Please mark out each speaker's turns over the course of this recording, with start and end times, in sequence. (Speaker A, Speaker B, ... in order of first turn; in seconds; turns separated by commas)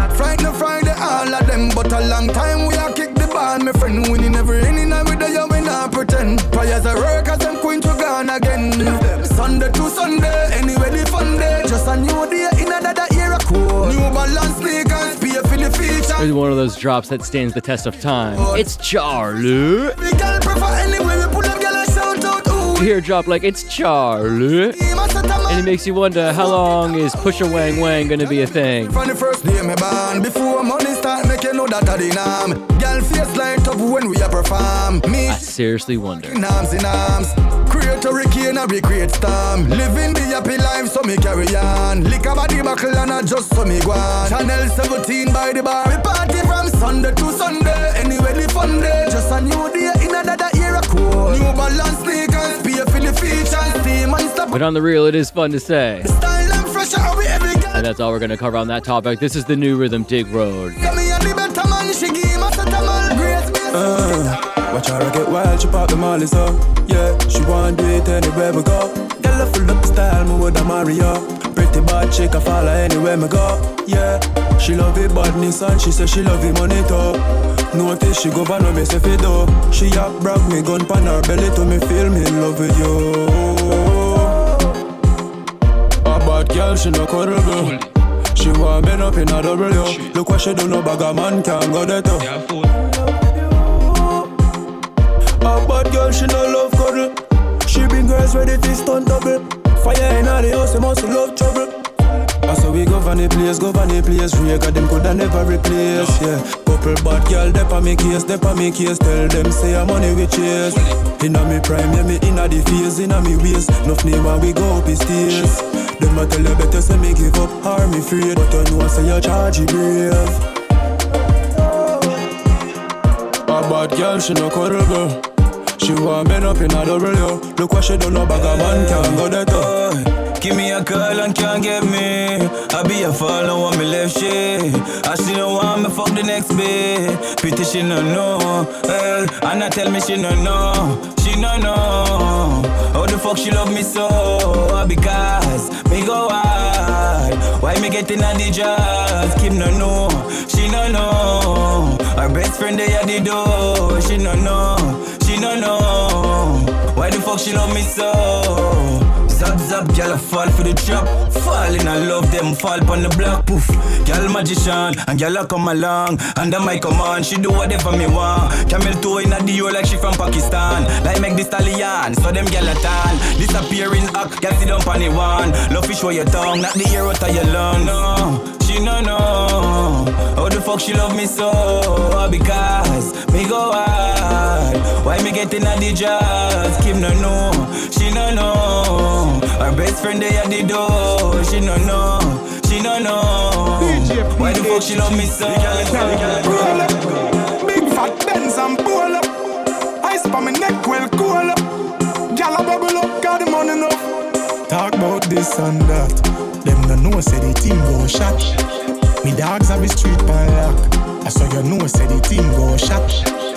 Speaker A: 0.2-16.1, Speaker B: 16.2-19.9, Speaker A: 20.1-22.6, Speaker B: 22.8-24.8, Speaker A: 25.0-25.3, Speaker B: 25.5-29.0, Speaker A: 29.1-35.1, Speaker B: 35.2-36.4, Speaker A: 36.4-40.0, Speaker A: 41.9-42.2, Speaker A: 44.2-54.4, Speaker B: 54.5-56.1, Speaker A: 56.2-57.6, Speaker B: 57.7-60.8, Speaker A: 60.9-63.6, Speaker C: 63.7-77.2, Speaker C: 77.7-84.3, Speaker C: 86.0-87.8, Speaker C: 88.3-92.3, Speaker C: 95.4-101.8, Speaker C: 102.5-120.4, Speaker C: 123.5-125.2, Speaker C: 125.8-129.7, Speaker D: 128.3-197.3, Speaker E: 204.7-208.5, Speaker E: 209.2-213.2